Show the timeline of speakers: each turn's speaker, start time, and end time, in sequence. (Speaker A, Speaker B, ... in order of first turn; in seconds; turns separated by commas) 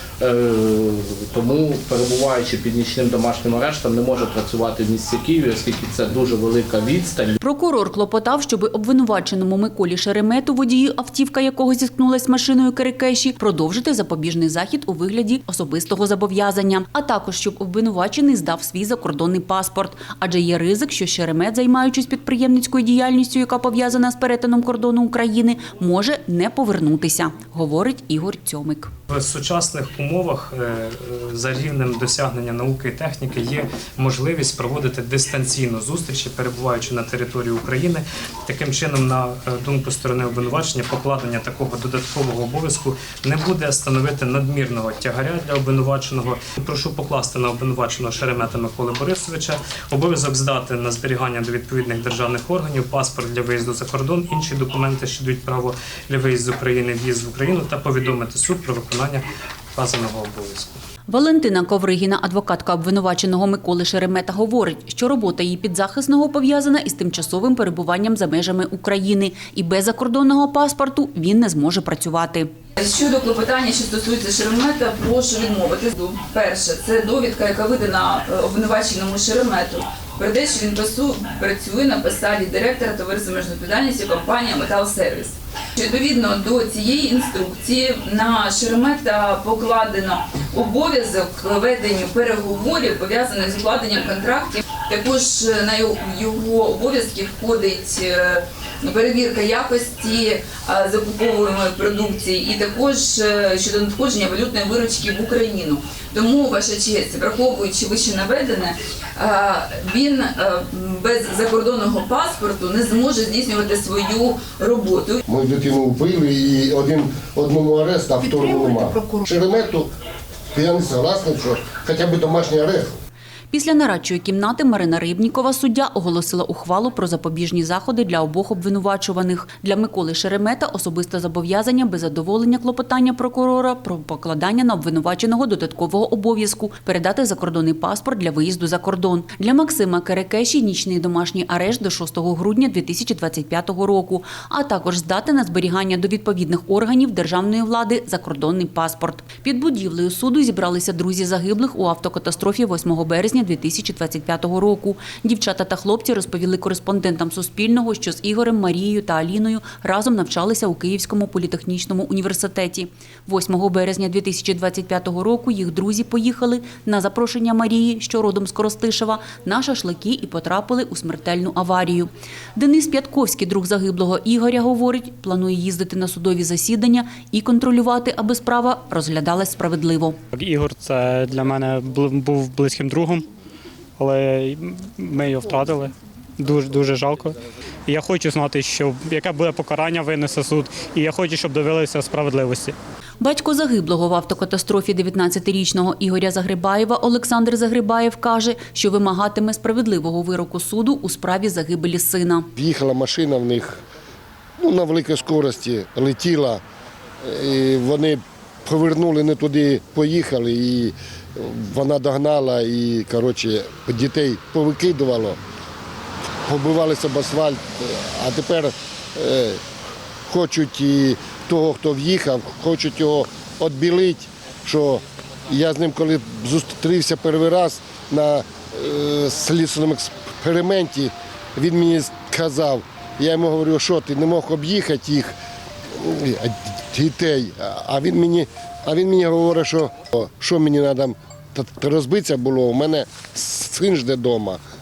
Speaker A: 0.2-7.4, Speaker B: 7.4-28.9, Speaker C: 29.1-59.2, Speaker C: 59.8-60.8, Speaker B: 61.1-72.5, Speaker D: 72.8-115.2, Speaker E: 115.3-119.9, Speaker E: 120.5-123.0, Speaker B: 123.5-180.2, Speaker F: 180.3-183.3, Speaker F: 184.0-192.8, Speaker B: 193.2-202.5, Speaker E: 202.6-203.8, Speaker E: 204.6-206.6, Speaker E: 207.2-215.4, Speaker E: 216.5-219.6, Speaker E: 220.3-235.4, Speaker E: 236.0-244.6